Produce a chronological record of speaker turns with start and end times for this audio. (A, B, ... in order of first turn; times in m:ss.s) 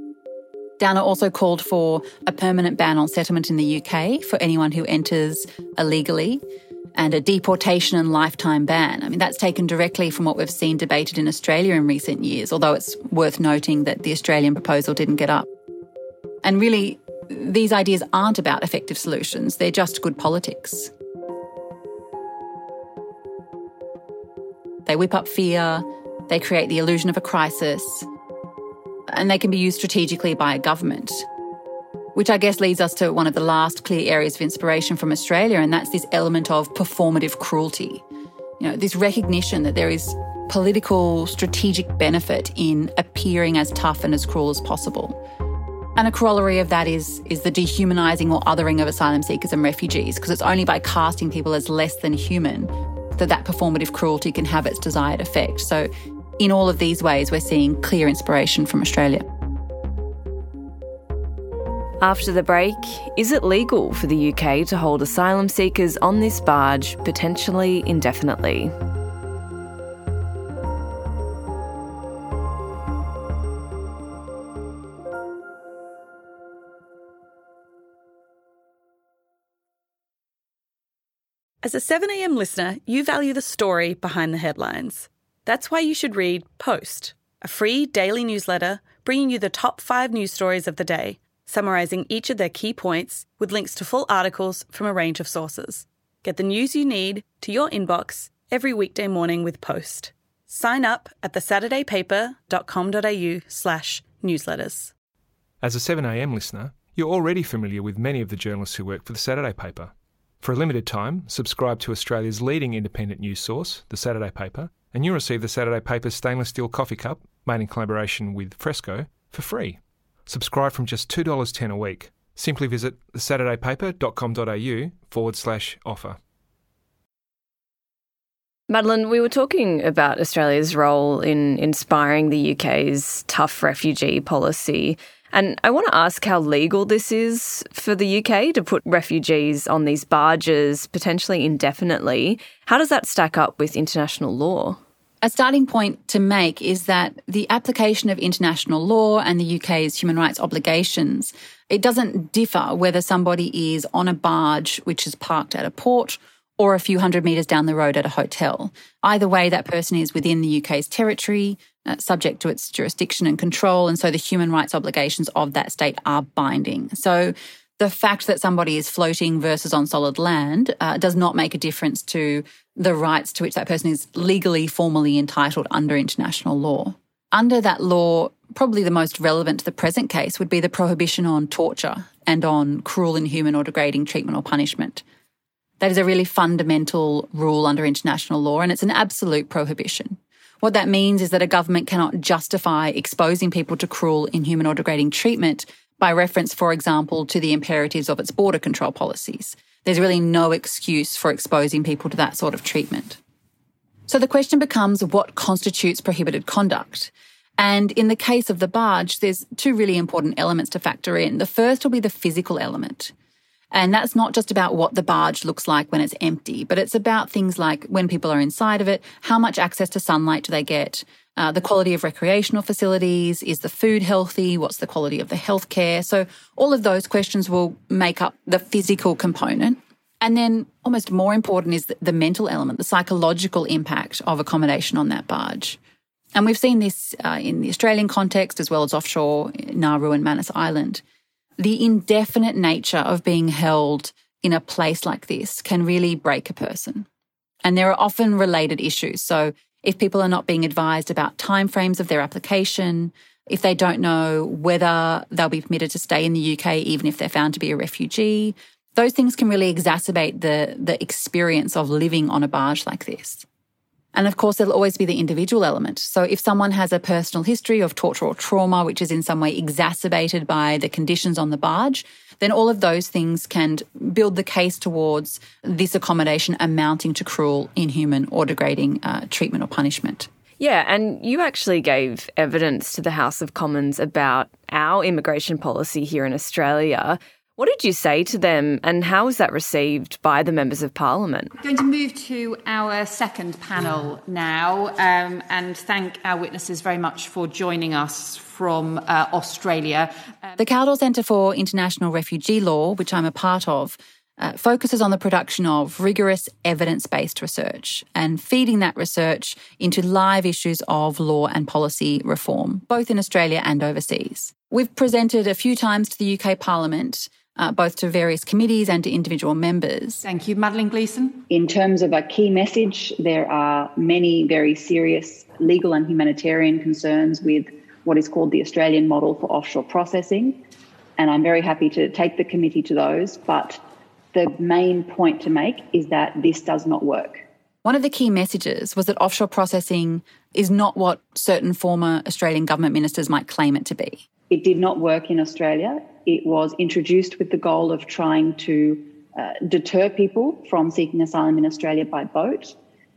0:00.8-0:06.4 A
0:07.0-0:15.5 A
0:16.4-0:20.9 A
0:24.8-0:28.1 A
0:29.1-0:31.2 A
0:32.1-0:38.0 A
0:38.6-0:45.2 A
0:46.0-0:59.2 A
1:02.0-1:08.7 B
1:21.6-1:44.9 C
1:45.6-1:49.9 D
1:50.4-2:06.2 D
2:08.7-2:24.8 B
2:25.2-3:05.0 A
3:05.8-3:23.2 A
3:24.1-3:33.1 A
3:33.7-3:55.8 A
3:56.3-4:01.0 A
4:01.6-4:07.0 A
4:07.6-4:23.4 A
4:24.1-4:40.3 A
4:40.6-4:51.5 B
4:51.6-5:00.6 E
5:00.6-5:20.2 A
5:20.2-5:21.4 E
5:21.6-5:22.0 F
5:22.0-5:23.0 A
5:23.2-5:30.3 F
5:31.2-5:33.6 F
5:34.7-5:35.2 A
5:35.3-5:36.9 F
5:36.9-5:37.2 A
5:37.8-5:45.6 A
5:45.6-5:51.0 F
5:51.0-5:52.4 A